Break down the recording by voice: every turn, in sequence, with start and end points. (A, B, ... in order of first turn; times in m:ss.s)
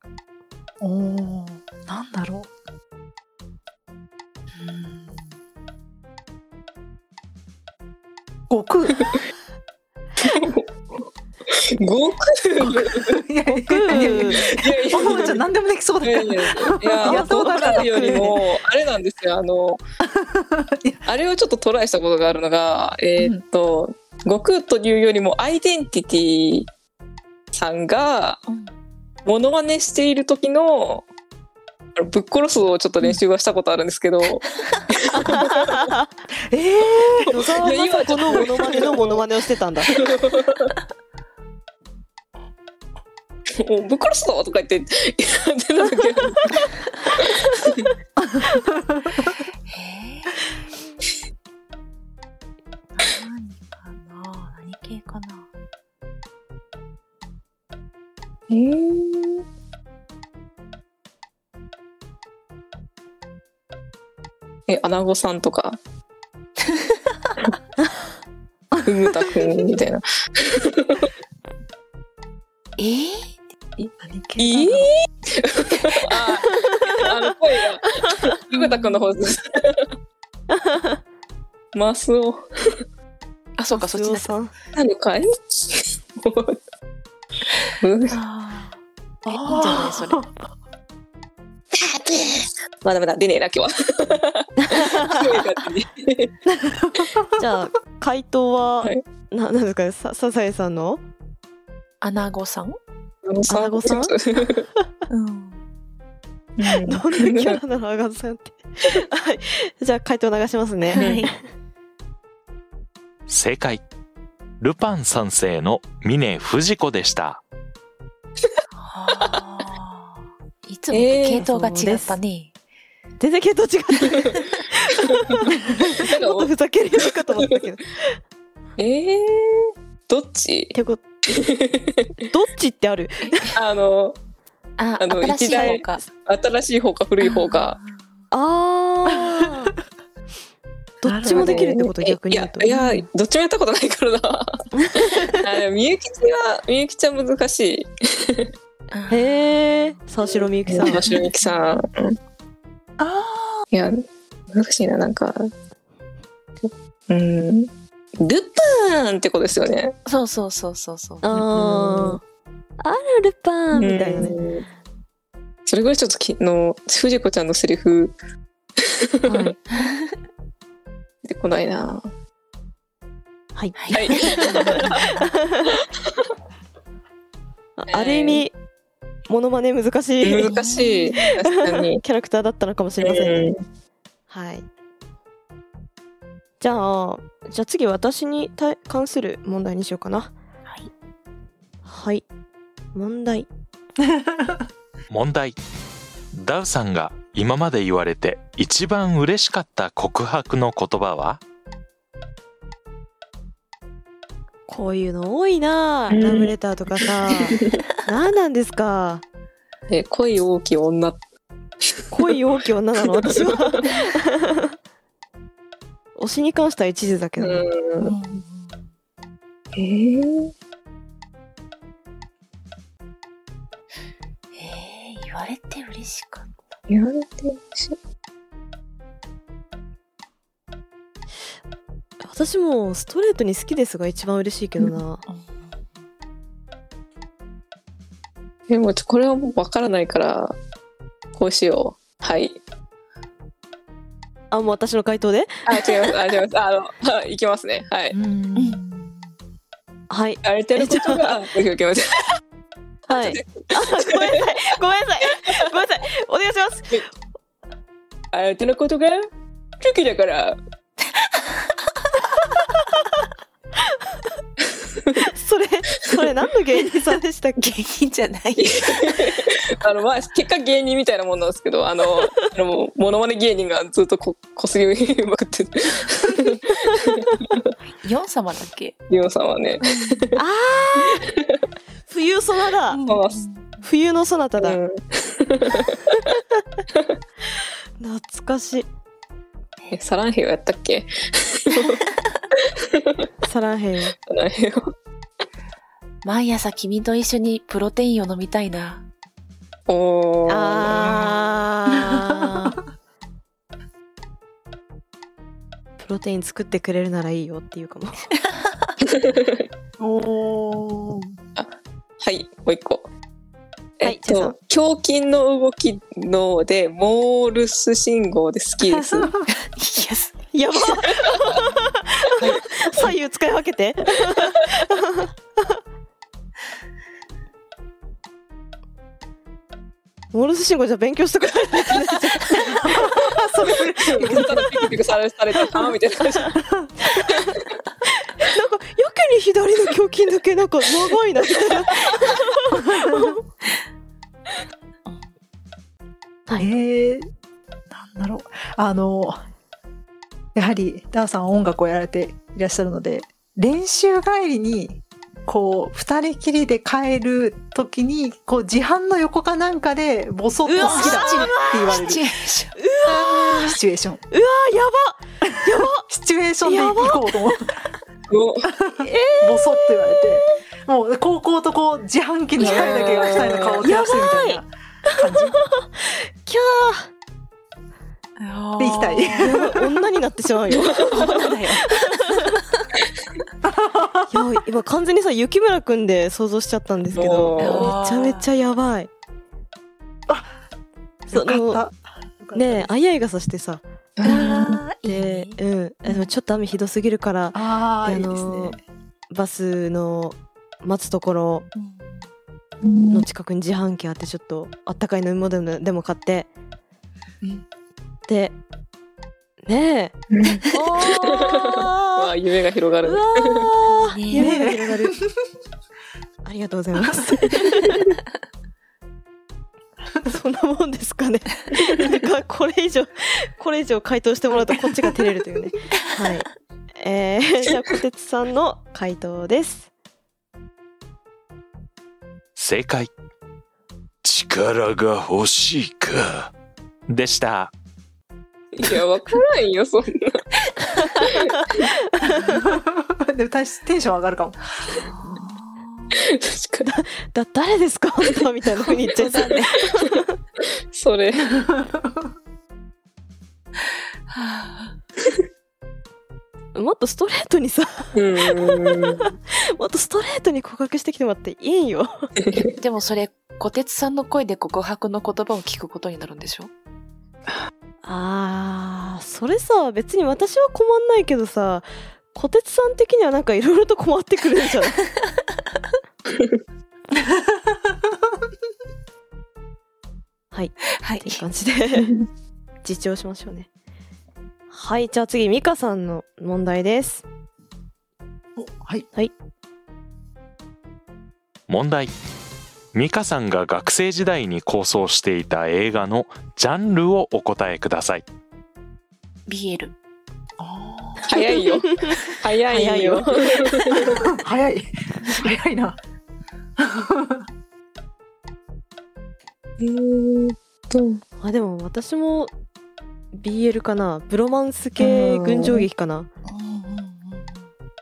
0:00.8-0:02.5 A
0:04.6-0:05.2 A
0:08.5-0:09.1 A
0:10.2-0:10.7 B
0:11.5-0:13.2 B
0:12.6-0:18.4 A
0:13.5-0:14.4 C
0:13.9-0:15.4 B
0:16.0-0:19.8 B
0:17.0-0:18.4 C
0:20.0-0:21.0 A
0:21.1-0:26.7 B
0:27.5-0:28.4 B
0:29.2-0:31.0 B
0:32.0-0:35.9 B
0:35.1-0:36.1 C
0:36.5-0:37.4 A
0:37.3-0:39.9 C
0:37.6-0:39.2 B
0:39.9-0:40.7 B
0:43.6-0:47.9 B
0:48.2-0:49.3 A
0:49.7-0:50.5 D
0:52.9-0:55.5 D
0:58.5-0:59.4 B
1:04.7-1:05.8 B
1:08.7-1:09.0 A
1:08.8-1:11.1 B
1:12.8-1:13.3 D
1:13.8-1:19.9 B
1:14.0-1:14.9 A
1:16.4-1:17.1 C
1:20.5-1:21.0 C
1:21.7-1:22.5 B
1:23.6-1:24.3 D
1:23.8-1:24.5 C
1:24.8-1:26.6 B
1:27.8-1:28.2 B
1:28.1-1:28.8 D
1:29.3-1:30.3 A
1:29.3-1:30.2 D
1:31.8-1:32.5 D
1:32.8-1:36.3 B
1:34.6-1:35.2 C
1:36.5-1:37.3 A
1:37.4-1:41.0 C
1:42.0-1:42.8 D
1:43.2-1:44.7 B
1:43.5-1:44.1 C
1:45.1-1:45.6 D
1:46.6-1:47.6 B
1:46.6-1:51.3 C
1:50.9-1:51.3 D
1:51.0-1:51.2 B
1:53.3-1:53.8 E
1:54.6-1:57.4 E
1:58.8-2:02.5 D
2:00.9-2:01.4 B
2:01.4-2:02.2 C
2:03.2-2:08.2 C
2:06.0-2:06.5 B
2:08.8-2:10.7 B
2:10.7-2:11.0 C
2:11.3-2:12.1 B
2:12.2-2:13.5 C
2:13.6-2:14.2 B
2:14.8-2:16.0 D
2:15.0-2:17.8 B
2:15.5-2:16.0 C
2:17.2-2:18.0 D
2:18.3-2:19.7 C
2:19.1-2:19.5 A
2:21.0-2:22.7 C
2:21.0-2:21.7 D
2:21.2-2:28.5 B
2:24.8-2:25.4 C
2:28.9-2:30.0 D
2:29.1-2:31.0 C
2:30.8-2:31.3 D
2:30.8-2:32.2 B
2:33.0-2:33.6 A
2:33.7-2:35.5 B
2:36.6-2:39.9 B
2:40.1-2:41.2 D
2:41.2-2:42.2 C
2:41.4-2:42.2 B
2:42.8-2:44.4 C
2:43.8-2:44.6 B
2:45.7-2:48.1 B
2:48.8-2:49.5 B
2:49.3-2:49.6 A
2:49.7-2:50.1 D
2:51.2-2:52.1 B
2:53.6-2:55.8 C
2:53.8-2:55.3 D
2:53.9-2:55.0 B
2:57.8-2:58.5 C
2:57.9-2:58.4 B
2:59.3-3:00.5 C
3:00.2-3:02.0 B
3:00.4-3:01.2 D
3:01.2-3:03.5 C
3:03.0-3:03.6 B
3:04.3-3:04.6 C
3:06.6-3:10.3 C
3:10.7-3:10.9 D
3:11.9-3:12.2 C
3:12.9-3:13.5 C
3:14.0-3:14.6 A
3:15.1-3:15.6 E
3:16.3-3:21.4 E
3:24.7-3:29.2 C
3:26.1-3:27.8 B
3:29.9-3:31.2 B
3:32.0-3:32.4 B
3:32.1-3:34.7 C
3:33.1-3:34.0 B
3:36.2-3:37.7 C
3:37.4-3:38.2 B
3:38.1-3:38.8 D
3:39.8-3:40.5 B
3:44.6-3:46.5 D
3:46.9-3:48.0 B
3:52.2-3:55.2 C
3:58.7-4:00.6 B
4:01.4-4:02.6 B
4:04.5-4:06.0 C
4:05.7-4:08.2 B
4:08.1-4:09.2 A
4:10.1-4:11.3 C
4:10.4-4:12.4 B
4:13.1-4:17.0 C
4:13.1-4:14.4 B
4:15.4-4:15.7 B
4:18.3-4:19.3 B
4:19.8-4:20.6 B
4:25.2-4:27.8 C
4:27.6-4:29.4 D
4:28.6-4:37.6 B
4:37.9-4:39.0 D
4:39.1-4:40.4 B
4:39.8-4:40.3 D
4:40.4-4:41.2 C
4:41.2-4:41.6 B
4:42.1-4:43.0 C
4:42.9-4:43.8 D
4:43.1-4:43.4 B
4:43.8-4:44.8 C
4:44.6-4:46.0 B
4:48.0-4:48.9 C
4:49.9-4:52.0 B
4:51.7-4:52.4 D
4:52.9-4:53.3 B
4:53.4-4:54.1 C
4:54.3-4:54.9 B
4:56.2-4:59.0 D
4:59.9-5:01.1 B
5:00.5-5:02.8 C
5:01.0-5:01.4 A
5:01.9-5:02.8 A
5:06.0-5:08.3 C
5:09.1-5:09.7 B
5:10.0-5:11.4 A
5:11.6-5:13.1 B
5:14.0-5:19.3 B
5:14.0-5:14.6 C
5:18.8-5:19.6 A
5:19.8-5:20.3 D
5:20.5-5:25.3 C
5:22.3-5:23.1 A
5:30.3-5:34.9 C
5:32.4-5:34.9 A
5:34.0-5:36.6 B
5:36.6-5:36.9 A
5:37.1-5:37.6 C
5:38.1-5:43.4 C
5:42.7-5:43.4 A
5:46.6-5:47.3 A
5:47.9-5:49.4 A
5:50.6-6:02.2 A
6:00.6-6:02.0 C
6:00.8-6:02.8 D
6:02.8-6:03.8 C
6:03.2-6:04.2 A
6:04.3-6:06.0 C
6:05.4-6:07.9 A
6:06.6-6:07.3 C
6:08.3-6:08.7 B
6:08.6-6:15.6 A
6:09.0-6:10.4 C
6:12.6-6:13.8 B
6:12.6-6:17.1 C
6:18.4-6:19.8 D
6:18.8-6:20.0 A
6:19.4-6:22.6 C
6:20.7-6:22.6 D
6:23.6-6:24.5 A
6:24.3-6:29.1 C
6:27.1-6:28.0 B
6:27.6-6:28.5 D
6:30.3-6:30.6 A
6:31.3-6:32.9 A
6:31.3-6:31.8 C
6:32.6-6:34.3 C
6:34.2-6:34.8 B
6:34.2-6:35.6 D
6:34.3-6:34.8 A
6:35.0-6:38.8 C
6:37.5-6:38.8 A
6:39.3-6:41.7 C
6:41.8-6:42.3 D
6:42.8-6:43.2 B
6:43.1-6:46.5 C
6:48.3-6:48.6 C
6:49.6-6:50.2 C
6:50.3-6:53.7 B
6:50.7-6:52.3 C
6:53.0-6:55.1 C
6:53.9-6:54.5 D
6:54.3-6:55.3 A
6:56.4-6:58.1 C
7:00.3-7:06.5 C
7:04.5-7:05.2 A
7:07.0-7:09.9 C
7:12.6-7:13.1 E
7:14.2-7:16.5 E
7:17.1-7:17.7 E
7:18.8-7:20.6 B
7:21.0-7:22.6 C
7:21.2-7:21.9 B
7:22.3-7:24.6 A
7:24.9-7:26.2 D
7:26.2-7:26.9 B
7:26.8-7:30.4 C
7:28.9-7:29.7 D
7:29.8-7:30.2 B
7:30.9-7:31.7 B
7:31.5-7:32.2 A
7:34.3-7:34.9 D
7:36.8-7:42.3 C
7:38.1-7:39.3 B
7:42.4-7:42.7 B
7:42.7-7:46.7 D
7:48.0-7:55.0 C
7:57.2-7:57.5 A
8:00.5-8:02.1 C
8:01.0-8:01.4 D
8:02.8-8:03.7 C
8:04.7-8:07.2 C
8:08.6-8:09.1 A
8:11.7-8:12.1 E
8:12.9-8:18.2 E
8:19.5-8:19.9 D
8:20.6-8:21.4 A
8:21.3-8:24.2 B
8:21.4-8:24.3 C
8:24.1-8:26.0 A
8:26.8-8:27.4 A
8:29.8-8:31.2 B
8:31.4-8:32.5 C
8:33.3-8:36.3 C
8:35.0-8:35.9 A
8:36.5-8:37.7 D